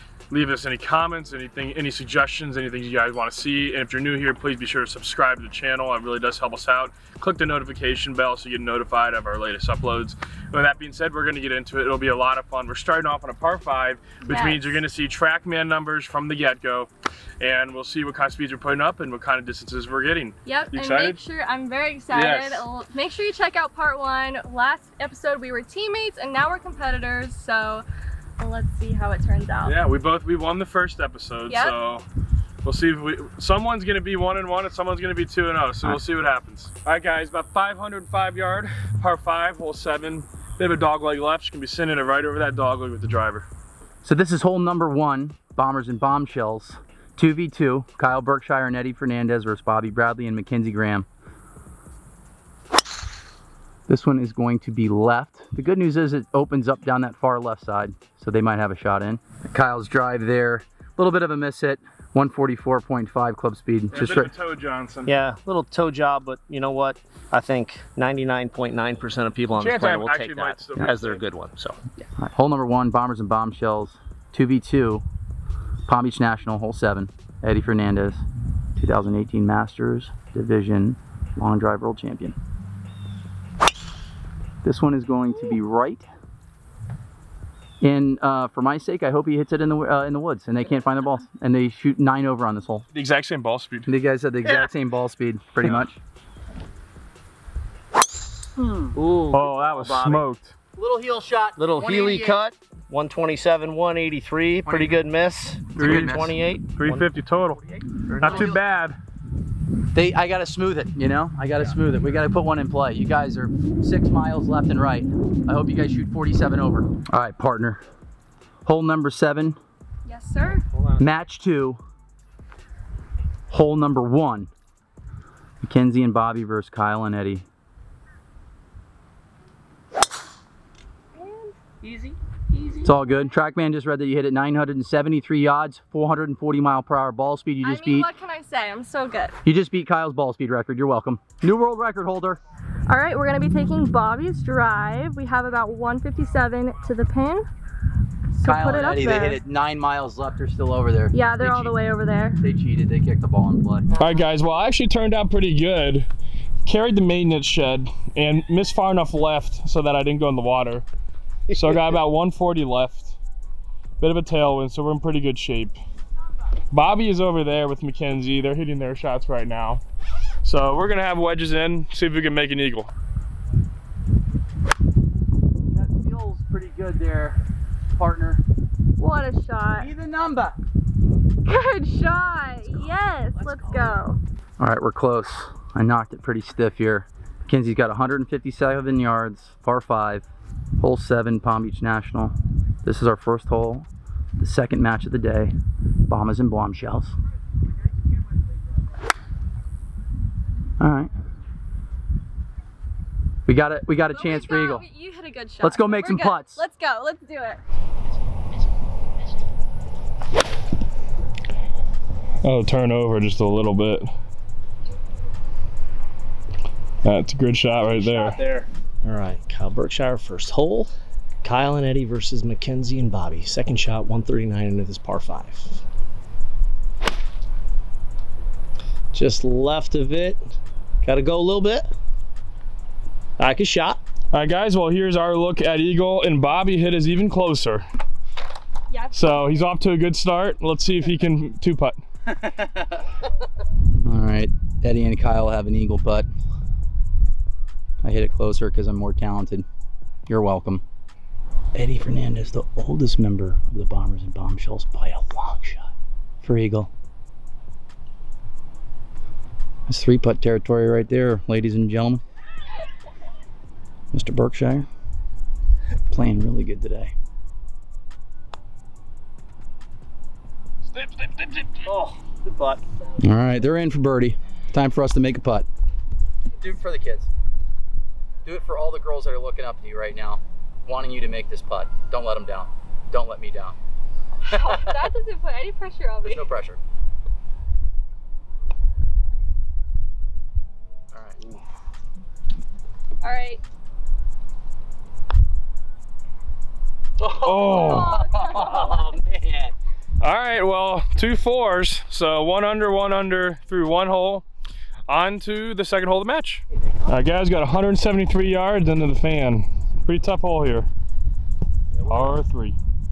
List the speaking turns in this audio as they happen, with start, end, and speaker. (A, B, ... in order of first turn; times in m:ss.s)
0:00.3-0:21.2 A
0:14.2-0:14.8 B
0:20.5-0:27.9 B
0:22.1-0:22.6 A
0:28.4-0:29.8 B
0:29.6-0:32.0 A
0:31.5-0:31.8 B
0:32.6-0:43.5 A
0:44.0-0:51.1 C
0:53.9-1:04.3 C
1:03.9-1:05.1 A
1:05.0-1:11.8 D
1:09.6-1:11.2 A
1:12.2-1:15.0 C
1:15.8-1:18.2 C
1:18.8-1:22.4 C
1:24.6-1:26.1 C
1:27.8-1:32.8 C
1:32.9-1:33.9 A
1:33.8-1:36.0 C
1:38.6-1:39.0 C
1:38.9-1:40.2 D
1:39.3-1:40.6 A
1:40.8-1:42.4 C
1:41.6-1:47.1 D
1:44.6-1:45.0 C
1:45.8-1:49.0 A
1:45.8-1:46.4 C
1:47.8-1:48.6 C
1:49.9-1:57.8 C
1:58.6-1:59.6 C
2:00.0-2:00.6 B
2:00.7-2:01.0 D
2:01.0-2:01.8 C
2:03.5-2:04.5 C
2:05.6-2:07.4 C
2:11.2-2:11.5 B
2:11.8-2:12.9 D
2:12.8-2:18.1 C
2:17.6-2:19.4 B
2:19.4-2:22.4 C
2:22.9-2:27.4 B
2:28.3-2:29.4 B
2:28.4-2:31.8 C
2:31.1-2:32.4 B
2:32.4-2:33.8 C
2:34.0-2:36.1 A
2:36.6-2:40.8 A
2:41.5-2:41.8 D
2:41.5-2:43.2 A
2:44.0-2:45.8 A
2:46.7-2:49.8 A
2:50.4-2:52.9 A
2:55.7-2:57.4 C
2:58.0-2:58.4 C
2:59.0-2:59.9 B
2:59.8-3:00.6 C
3:01.4-3:04.2 B
3:02.7-3:03.8 C
3:04.6-3:10.2 C
3:10.8-3:15.5 C
3:16.1-3:17.1 C
3:20.8-3:21.1 C
3:23.4-3:24.8 C
3:24.1-3:27.6 B
3:25.6-3:26.6 C
3:32.4-3:34.1 A
3:37.0-3:38.4 A
3:38.0-3:40.9 D
3:41.4-3:45.8 D
3:49.1-3:50.4 D
3:51.0-3:51.9 D
3:53.4-3:54.0 D
3:54.3-3:57.8 A
3:58.9-3:59.4 B
3:59.1-4:02.0 A
4:02.2-4:03.0 C
4:04.0-4:06.3 C
4:08.0-4:09.6 C
4:10.3-4:10.8 C
4:11.8-4:16.9 C
4:19.9-4:22.2 C
4:24.1-4:24.9 C
4:26.1-4:27.1 C
4:31.0-4:32.8 D
4:33.2-4:35.6 C
4:36.6-4:37.3 C
4:38.4-4:43.8 C
4:44.4-4:46.5 B
4:44.5-4:45.0 C
4:46.2-4:46.8 C
4:51.1-4:51.4 C
4:53.2-4:53.6 B
4:57.2-4:59.7 C
4:57.4-4:58.2 A
4:57.6-4:59.1 B
5:00.2-5:04.4 A
5:05.1-5:10.9 A
5:06.7-5:07.1 D
5:11.9-5:12.4 D
5:12.1-5:12.8 A